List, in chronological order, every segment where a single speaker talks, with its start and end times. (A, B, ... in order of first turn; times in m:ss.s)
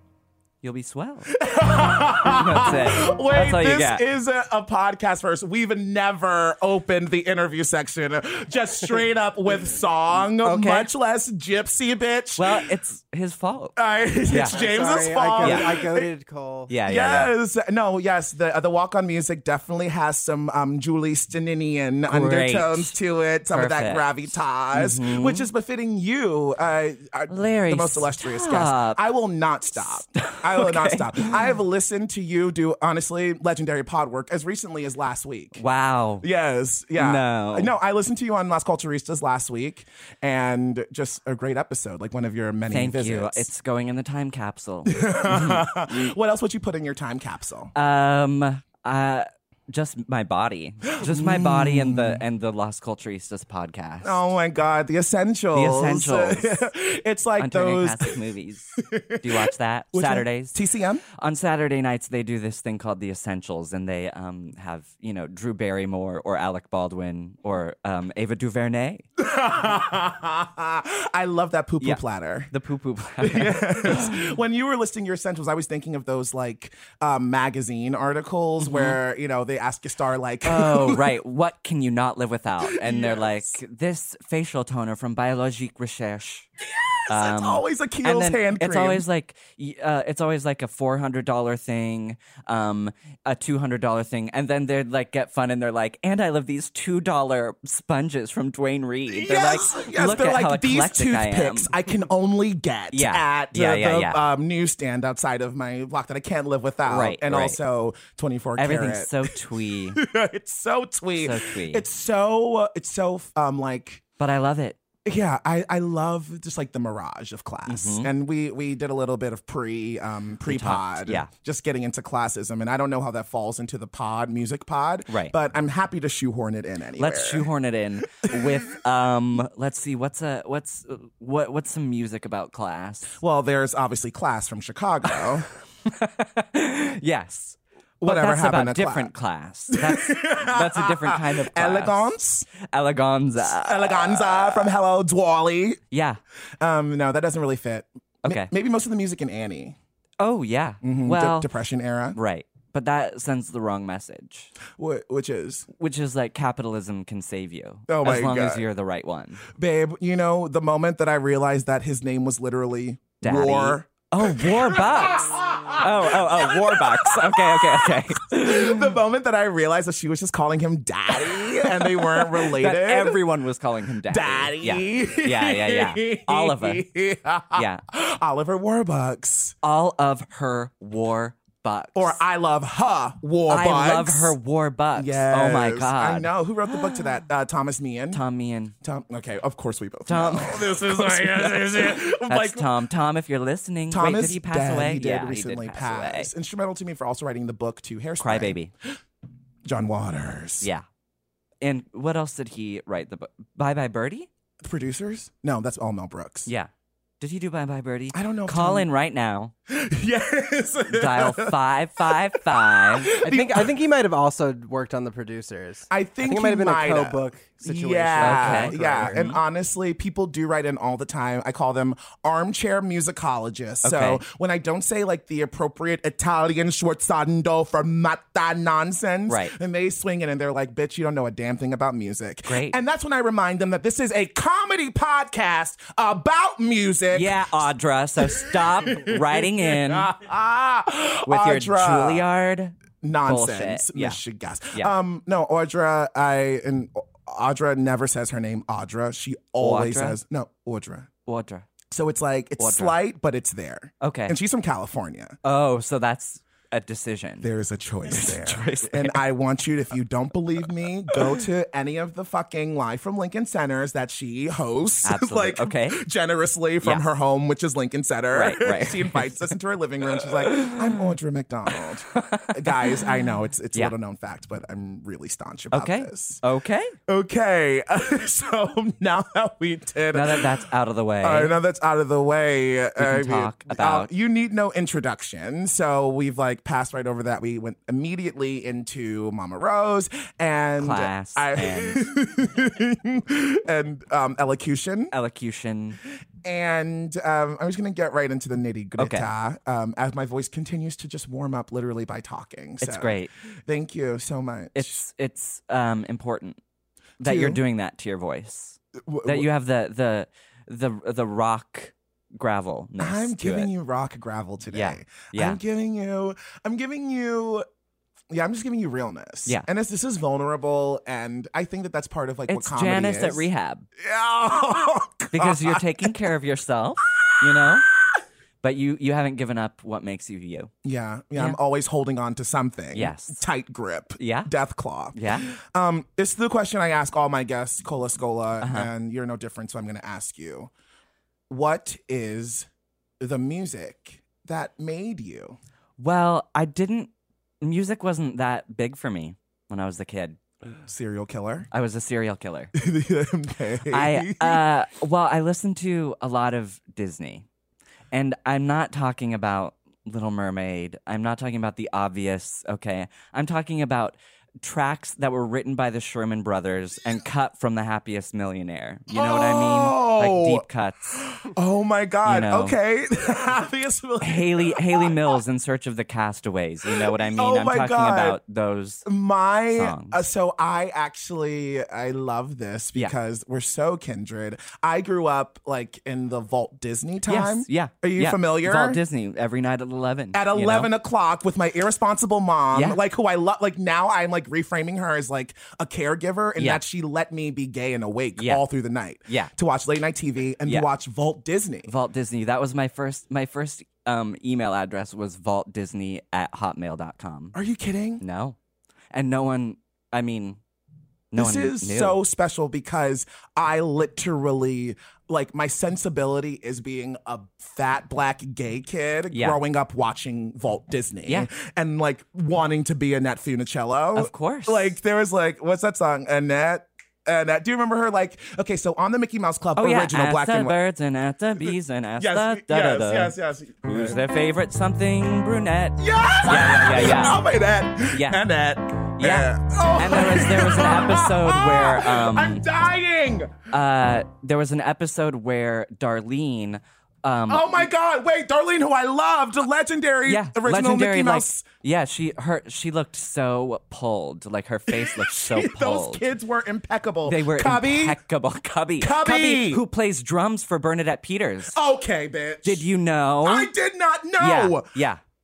0:00.6-0:01.3 A
0:01.3-0:12.7 B
0:02.2-0:04.0 A
0:10.4-0:10.9 A
0:12.4-0:13.7 A
0:13.8-0:16.1 B
0:14.3-0:14.6 A
0:14.4-0:16.7 C
0:15.4-0:15.7 A
0:16.7-0:17.3 A
0:16.8-0:35.6 B
0:22.0-0:23.0 A
0:23.5-0:24.1 A
0:24.7-0:25.5 A
0:27.3-0:29.0 A
0:30.1-0:31.3 A
0:35.6-0:36.2 A
0:36.2-0:43.5 B
0:37.0-0:37.7 A
0:42.7-0:46.1 A
0:44.8-0:47.7 B
0:47.7-0:54.2 A
0:50.9-0:52.2 B
0:54.0-0:58.2 B
0:55.5-0:56.6 A
0:57.4-1:00.6 A
0:58.8-1:01.0 B
1:01.2-1:09.0 A
1:09.2-1:12.5 B
1:12.5-1:14.3 A
1:13.2-1:21.1 B
1:18.6-1:19.0 A
1:20.4-1:26.5 A
1:22.6-1:23.6 B
1:26.6-1:29.0 B
1:27.1-1:41.7 A
1:39.1-1:49.4 B
1:42.9-1:44.2 A
1:46.9-1:47.6 A
1:48.6-1:50.0 A
1:49.9-1:54.0 B
1:51.2-1:51.8 A
1:54.2-1:54.8 A
1:55.0-2:07.4 B
1:57.7-1:58.1 A
2:00.4-2:01.3 A
2:05.1-2:05.3 A
2:07.0-2:13.2 A
2:13.2-2:15.5 B
2:15.8-2:24.7 A
2:18.0-2:19.1 B
2:19.7-2:22.5 B
2:23.4-2:25.8 B
2:25.9-2:26.2 A
2:26.6-2:29.8 B
2:28.2-2:28.5 A
2:30.2-2:31.5 A
2:30.8-2:32.2 B
2:32.1-2:34.5 A
2:34.8-2:35.7 B
2:35.8-2:39.4 A
2:37.9-2:38.6 B
2:39.5-2:53.2 B
2:43.2-2:49.0 A
2:51.5-2:56.8 A
2:54.1-2:59.6 B
2:57.5-2:57.8 A
2:59.6-3:02.2 A
3:01.9-3:04.4 B
3:03.5-3:07.2 A
3:05.0-3:08.2 B
3:08.1-3:08.7 A
3:08.8-3:12.7 B
3:10.1-3:16.3 A
3:13.9-3:18.6 B
3:18.2-3:18.7 A
3:19.6-3:20.7 B
3:21.6-3:24.3 A
3:24.6-3:26.5 B
3:26.4-3:29.5 A
3:28.1-3:28.9 B
3:29.7-3:33.7 B
3:30.9-3:33.1 A
3:33.2-3:39.2 C
3:35.9-3:57.7 B
3:38.2-3:39.4 A
3:43.8-3:44.2 A
3:49.3-3:49.5 A
3:52.5-3:52.8 A
3:57.1-4:00.1 A
3:58.2-4:02.2 B
4:01.2-4:04.2 A
4:03.0-4:11.1 B
4:09.6-4:10.2 A
4:11.2-4:11.6 A
4:11.9-4:15.4 B
4:12.6-4:13.0 A
4:14.0-4:14.4 A
4:15.4-4:17.5 A
4:17.4-4:36.4 B
4:18.1-4:19.2 A
4:25.0-4:26.0 A
4:28.3-4:29.5 A
4:30.4-4:31.1 A
4:32.1-4:33.0 A
4:35.7-4:36.9 A
4:37.1-4:40.5 B
4:40.1-4:41.5 A
4:41.2-4:55.1 B
4:43.0-4:44.1 A
4:50.8-4:52.0 A
4:55.1-4:56.0 A
4:56.4-5:05.0 B
4:59.0-4:59.3 A
5:02.8-5:03.3 A
5:04.7-5:06.6 A
5:07.2-5:13.7 A
5:07.2-5:07.6 B
5:09.0-5:09.5 B
5:13.0-5:17.6 B
5:14.7-5:15.6 A
5:18.3-5:23.4 B
5:22.5-5:23.8 A
5:24.0-5:26.1 B
5:25.3-5:27.9 A
5:27.2-5:27.8 B
5:28.6-5:30.7 A
5:30.8-5:40.7 B
5:32.9-5:33.4 A
5:34.2-5:34.5 A
5:35.1-5:35.5 A
5:38.6-5:38.9 A
5:41.5-5:42.7 B
5:43.2-5:45.6 B
5:46.0-5:47.1 A
5:47.6-5:50.4 A
5:50.8-5:51.7 B
5:51.7-5:52.7 A
5:52.8-5:54.6 B
5:53.9-5:57.4 A
5:58.1-6:11.2 A
6:09.1-6:15.4 B
6:12.2-6:12.8 A
6:14.2-6:19.0 A
6:16.9-6:18.4 B
6:19.0-6:29.0 B
6:19.7-6:20.2 A
6:27.3-6:30.9 A
6:30.3-6:41.9 B
6:32.7-6:33.0 A
6:36.6-6:36.8 A
6:38.4-6:38.6 A
6:41.9-6:47.5 A
6:47.5-6:48.2 B
6:48.2-6:48.6 A
6:49.1-6:50.6 A
6:51.3-6:52.2 A
6:51.3-7:10.8 B
6:59.3-6:59.6 A
7:04.1-7:04.9 A
7:09.8-7:17.4 A
7:11.6-7:14.2 B
7:16.0-7:23.6 B
7:18.1-7:18.4 A
7:19.2-7:22.6 A
7:23.7-7:27.9 A
7:27.5-7:31.6 B
7:30.2-7:36.2 A
7:34.9-7:38.2 B
7:37.2-7:41.8 A
7:39.0-7:39.8 B
7:41.7-7:42.8 B
7:42.6-7:43.7 A
7:43.4-7:44.9 B
7:44.4-7:45.2 A